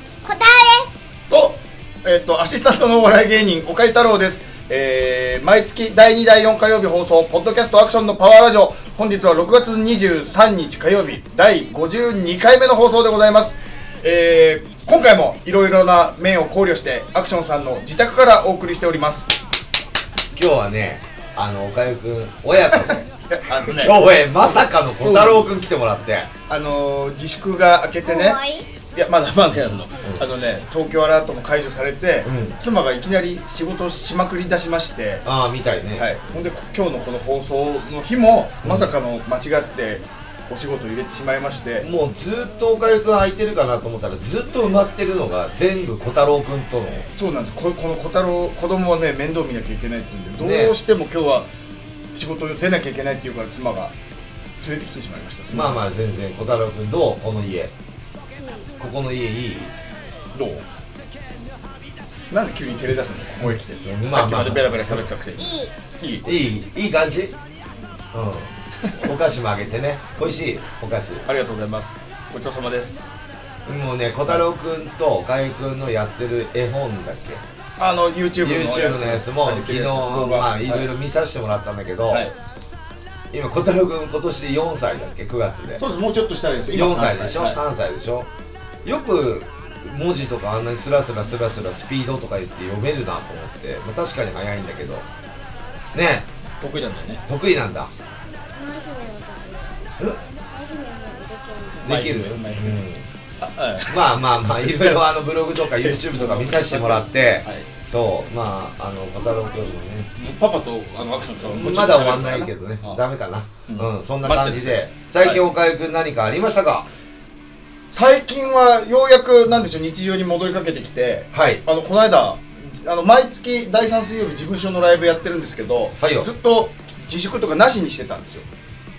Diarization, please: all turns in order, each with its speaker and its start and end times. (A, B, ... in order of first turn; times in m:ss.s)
0:00.2-0:00.9 A
0:01.3-0:19.3 B
0:20.3-0:23.1 C
0:22.7-0:24.0 B
0:23.6-0:26.3 C
0:25.0-0:25.5 B
0:26.5-0:28.4 B
0:28.0-0:28.6 A
0:28.9-0:35.2 B
0:32.2-0:32.6 C
0:35.2-0:36.2 C
0:36.0-0:41.9 B
0:38.6-0:39.0 C
0:41.8-0:47.1 C
0:47.1-0:51.5 B
0:50.4-0:50.8 C
0:52.1-0:53.9 B
0:54.6-0:55.8 B
0:55.5-0:57.7 C
0:58.4-0:58.7 A
0:58.8-0:59.7 C
1:00.3-1:00.6 B
1:02.3-1:06.3 B
1:03.8-1:05.1 C
1:05.4-1:05.7 A
1:06.2-1:07.3 C
1:07.7-1:08.0 A
1:08.1-1:11.3 C
1:11.3-1:13.0 B
1:13.7-1:17.4 C
1:17.8-1:20.9 B
1:18.4-1:22.3 C
1:23.3-1:25.8 C
1:25.8-1:27.6 B
1:26.7-1:28.3 C
1:28.8-1:35.1 C
1:35.9-1:36.3 C
1:36.6-1:37.2 B
1:37.3-1:37.9 C
1:38.5-1:42.0 A
1:41.8-1:42.8 B
1:41.8-1:43.1 C
1:43.4-1:45.0 B
1:43.9-1:50.1 C
1:45.7-1:47.7 B
1:49.2-1:49.7 A
1:50.2-1:53.0 B
1:51.4-1:56.9 C
1:53.7-1:55.4 B
1:57.9-2:08.4 B
2:01.3-2:01.6 C
2:06.0-2:06.3 C